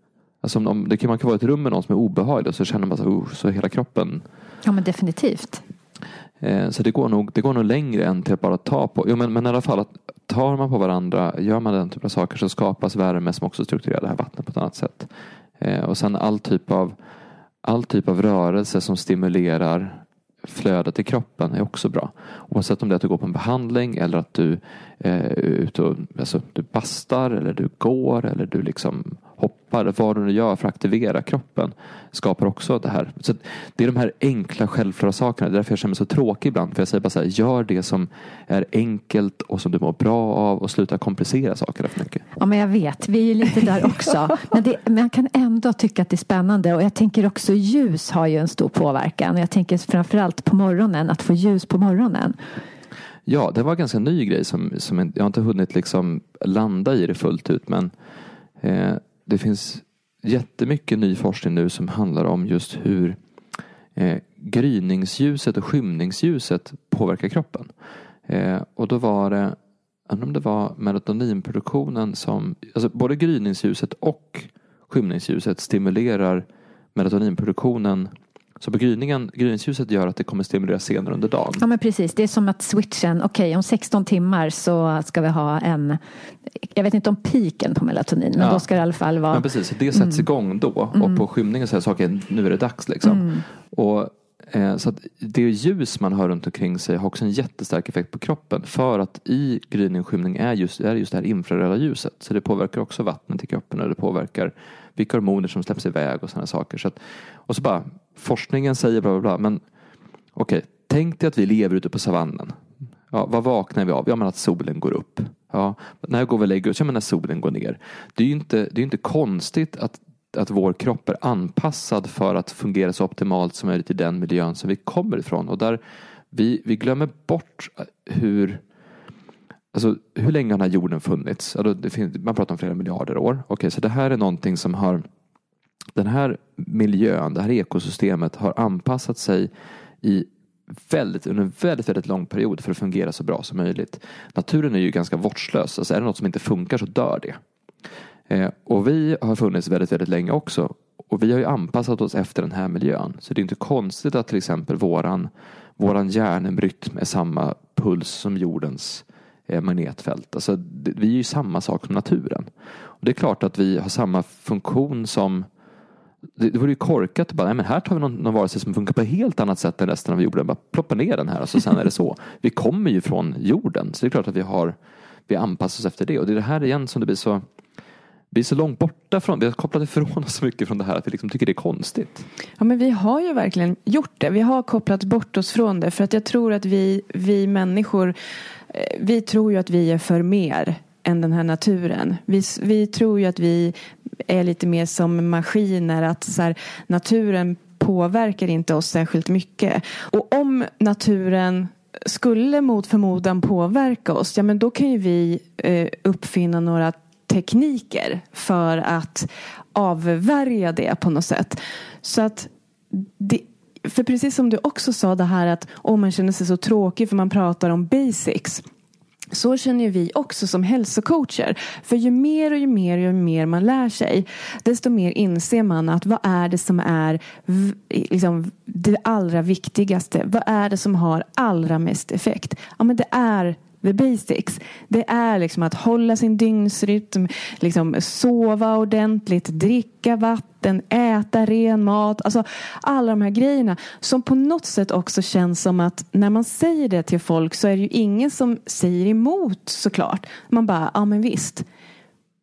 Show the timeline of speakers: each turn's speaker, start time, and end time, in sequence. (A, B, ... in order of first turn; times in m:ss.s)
0:00.4-0:04.2 A
0:04.6-0:05.6 B
0:06.4-0:16.9 A
0:17.6-0:42.2 A
0:42.4-0:52.4 B
0:53.2-0:57.9 A
0:58.6-1:03.2 A
1:04.0-1:07.7 A
1:08.3-1:09.6 A
1:10.1-1:21.6 A
1:21.6-1:26.0 B
1:26.6-1:30.2 B
1:28.4-1:28.7 A
1:29.3-1:49.6 A
1:30.9-1:31.2 B
1:33.0-1:33.4 B
1:50.3-1:52.6 A
1:53.1-2:05.8 A
2:06.3-2:08.6 A
2:09.7-2:15.0 A
2:16.0-2:19.5 A
2:20.0-2:27.4 A
2:28.3-2:42.5 A
2:43.0-2:45.5 A
2:46.4-2:54.8 A
2:55.3-2:57.4 A
2:58.3-3:02.2 A
3:02.6-3:08.1 C
3:08.7-3:13.7 C
3:14.3-3:38.6 C
3:39.3-4:11.6 C